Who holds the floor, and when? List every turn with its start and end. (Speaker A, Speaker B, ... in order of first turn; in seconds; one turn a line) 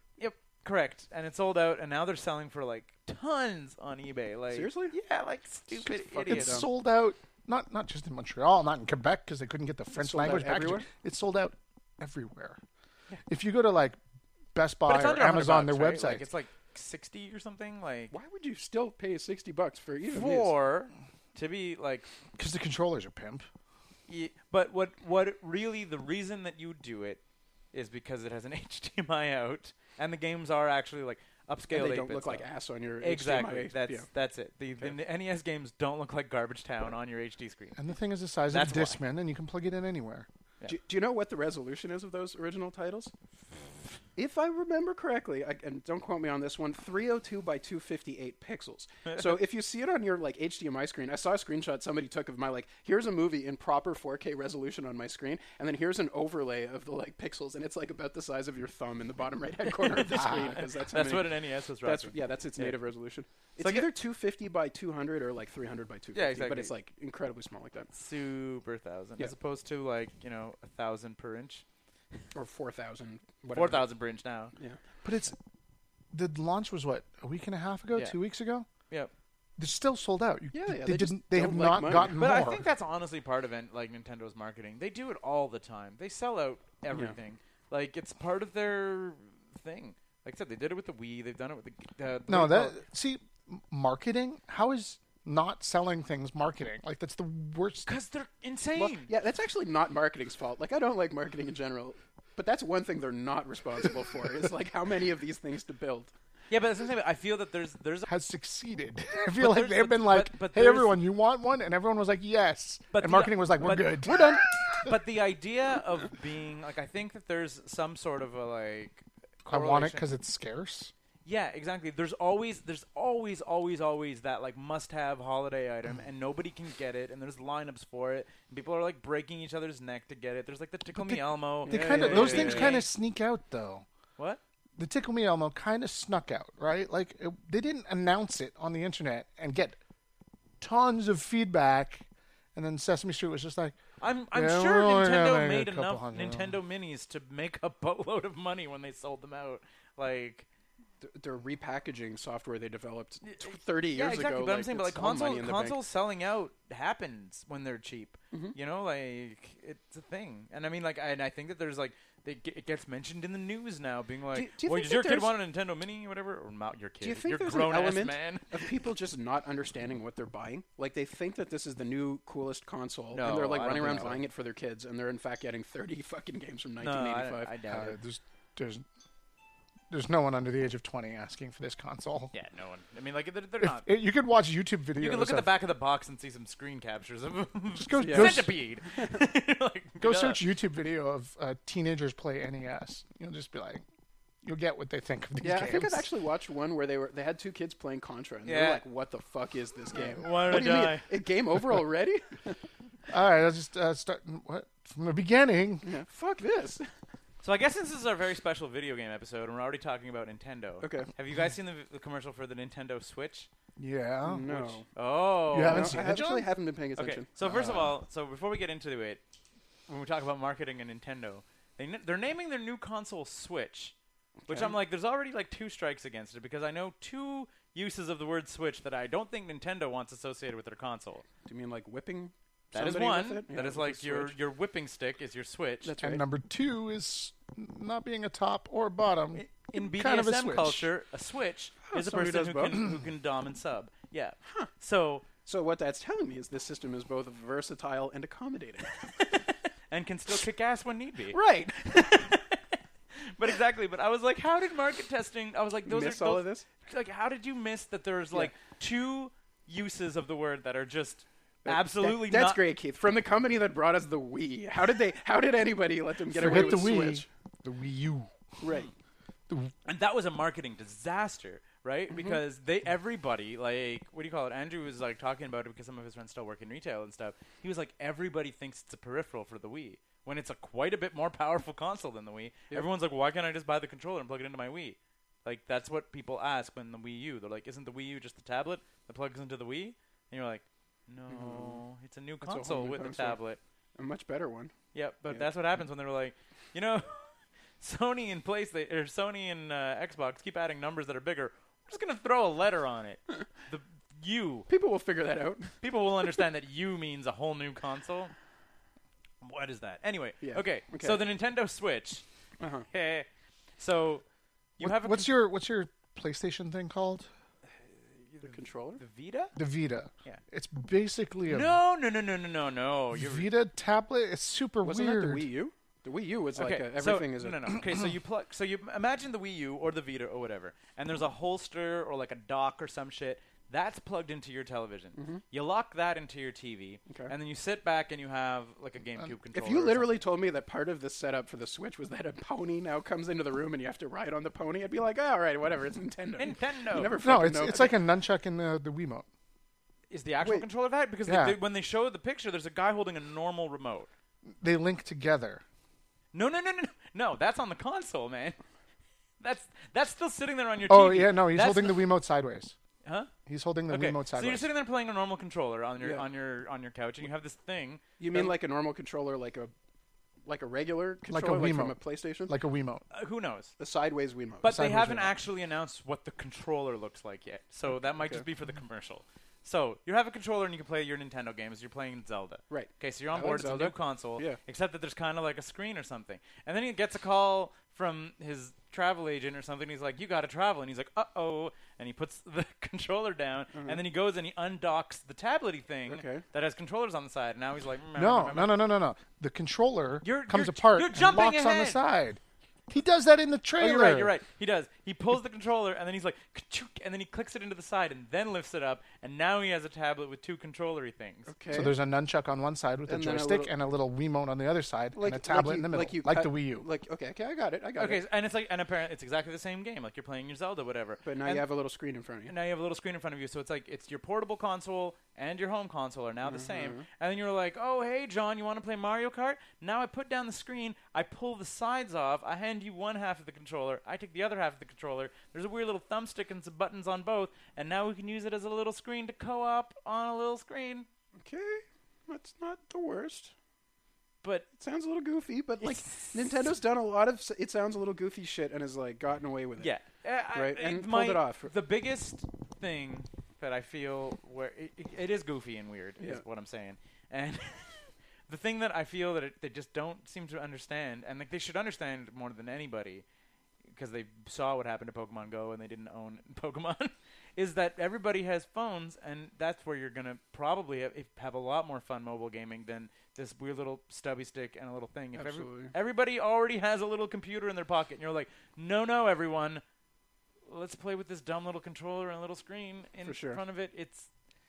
Speaker A: 0.2-6.6
Speaker B: 4.5-5.0
Speaker B: 5.8-6.7
Speaker C: 6.2-12.6
Speaker B: 9.9-10.9
Speaker C: 13.3-14.0
Speaker C: 14.5-16.2
Speaker A: 14.9-18.1
Speaker B: 18.1-20.5
Speaker A: 20.1-22.1
Speaker C: 22.4-23.5
Speaker A: 24.1-27.2
Speaker A: 27.7-32.5
Speaker B: 31.7-34.1
Speaker A: 33.0-37.8
Speaker C: 37.8-40.3
Speaker A: 38.5-39.0
Speaker B: 40.6-43.1
Speaker B: 44.1-67.9
Speaker A: 59.9-62.8
Speaker A: 63.6-63.9
Speaker A: 66.1-66.7
Speaker A: 67.9-71.6
Speaker B: 72.3-73.9
Speaker A: 73.5-74.5
Speaker C: 75.0-75.4
Speaker C: 76.1-78.7
Speaker C: 79.6-82.6
Speaker B: 80.5-82.3
Speaker A: 82.2-92.8
Speaker B: 86.9-87.2
Speaker C: 92.3-97.9
Speaker A: 97.8-99.1
Speaker B: 98.8-106.1
Speaker A: 106.5-108.1
Speaker C: 108.1-114.9
Speaker A: 109.3-111.0
Speaker A: 112.9-114.1
Speaker B: 114.0-114.4
Speaker A: 114.8-120.1
Speaker C: 119.5-120.9
Speaker A: 121.2-132.9
Speaker C: 130.9-133.8
Speaker B: 131.7-132.8
Speaker C: 134.8-139.8
Speaker C: 140.6-143.8
Speaker A: 144.0-150.5
Speaker C: 144.3-146.6
Speaker B: 151.0-155.8
Speaker A: 153.3-168.7
Speaker B: 164.3-165.3
Speaker B: 167.0-177.5
Speaker A: 173.1-174.2
Speaker A: 176.8-178.0
Speaker C: 177.7-178.8
Speaker C: 179.9-182.3
Speaker A: 182.3-183.9
Speaker C: 183.6-185.5
Speaker A: 185.0-190.4
Speaker C: 187.8-188.5
Speaker B: 188.0-188.5
Speaker C: 190.0-193.8
Speaker C: 194.4-196.1
Speaker B: 195.4-202.6
Speaker A: 198.4-198.8
Speaker A: 199.9-201.1
Speaker C: 203.1-205.9
Speaker B: 205.8-206.9
Speaker A: 207.4-213.5
Speaker B: 210.8-211.1
Speaker C: 213.8-214.8
Speaker B: 214.2-214.8
Speaker A: 215.0-216.1
Speaker C: 215.5-216.5
Speaker B: 215.6-217.8
Speaker A: 217.0-219.2
Speaker A: 219.9-223.9
Speaker B: 224.5-224.8
Speaker A: 224.5-231.2
Speaker B: 231.4-234.3
Speaker A: 232.7-235.9
Speaker B: 235.8-236.2
Speaker C: 236.0-240.9
Speaker A: 239.3-245.2
Speaker B: 241.9-242.9
Speaker B: 245.4-249.0
Speaker A: 249.1-262.6
Speaker B: 251.3-252.3
Speaker B: 255.8-256.7
Speaker B: 261.6-267.3
Speaker C: 266.4-268.4
Speaker A: 266.4-266.9
Speaker B: 268.6-268.9
Speaker C: 269.5-269.7
Speaker A: 269.9-293.6
Speaker B: 272.1-272.4
Speaker B: 291.3-291.8
Speaker B: 292.4-293.4
Speaker B: 294.0-294.7
Speaker A: 294.9-304.7
Speaker B: 304.7-305.8
Speaker A: 305.8-308.3
Speaker A: 309.4-312.2
Speaker B: 310.4-311.2
Speaker B: 312.6-312.9
Speaker A: 312.9-314.2
Speaker A: 314.8-315.4
Speaker C: 314.8-317.3
Speaker A: 318.4-319.6
Speaker B: 318.4-319.0
Speaker C: 319.6-321.8
Speaker A: 321.5-323.5
Speaker C: 323.1-325.5
Speaker B: 324.8-327.8
Speaker A: 326.6-340.2
Speaker B: 335.1-335.4
Speaker B: 339.5-348.0
Speaker A: 346.4-347.2
Speaker C: 347.2-349.3
Speaker A: 350.1-354.1
Speaker B: 350.4-350.7
Speaker C: 351.2-351.6
Speaker C: 354.6-355.6
Speaker A: 356.3-358.6
Speaker A: 359.4-362.1
Speaker C: 360.9-362.8
Speaker A: 363.0-363.3
Speaker C: 363.5-364.7
Speaker A: 363.9-368.5
Speaker B: 366.0-366.2
Speaker B: 368.2-369.7
Speaker B: 370.5-372.5
Speaker C: 371.3-373.0
Speaker A: 373.1-373.7
Speaker B: 373.8-374.7
Speaker A: 374.6-398.8
Speaker C: 374.6-375.4
Speaker B: 378.0-378.5
Speaker B: 382.7-384.6
Speaker B: 393.7-394.0
Speaker B: 396.1-396.4
Speaker C: 398.1-404.3
Speaker A: 400.2-402.0
Speaker A: 403.8-411.5
Speaker B: 411.5-411.9
Speaker C: 411.7-416.9
Speaker B: 413.1-413.7
Speaker B: 415.1-418.2
Speaker A: 418.0-421.6
Speaker B: 421.2-422.5
Speaker A: 422.5-441.1
Speaker B: 426.4-427.1
Speaker B: 441.4-443.5
Speaker A: 444.4-444.7
Speaker B: 444.8-449.9
Speaker A: 445.8-446.5
Speaker A: 449.8-463.2
Speaker B: 450.5-451.7
Speaker B: 456.2-456.4
Speaker A: 463.9-479.8
Speaker B: 475.4-475.9
Speaker A: 480.6-484.3
Speaker B: 483.2-483.6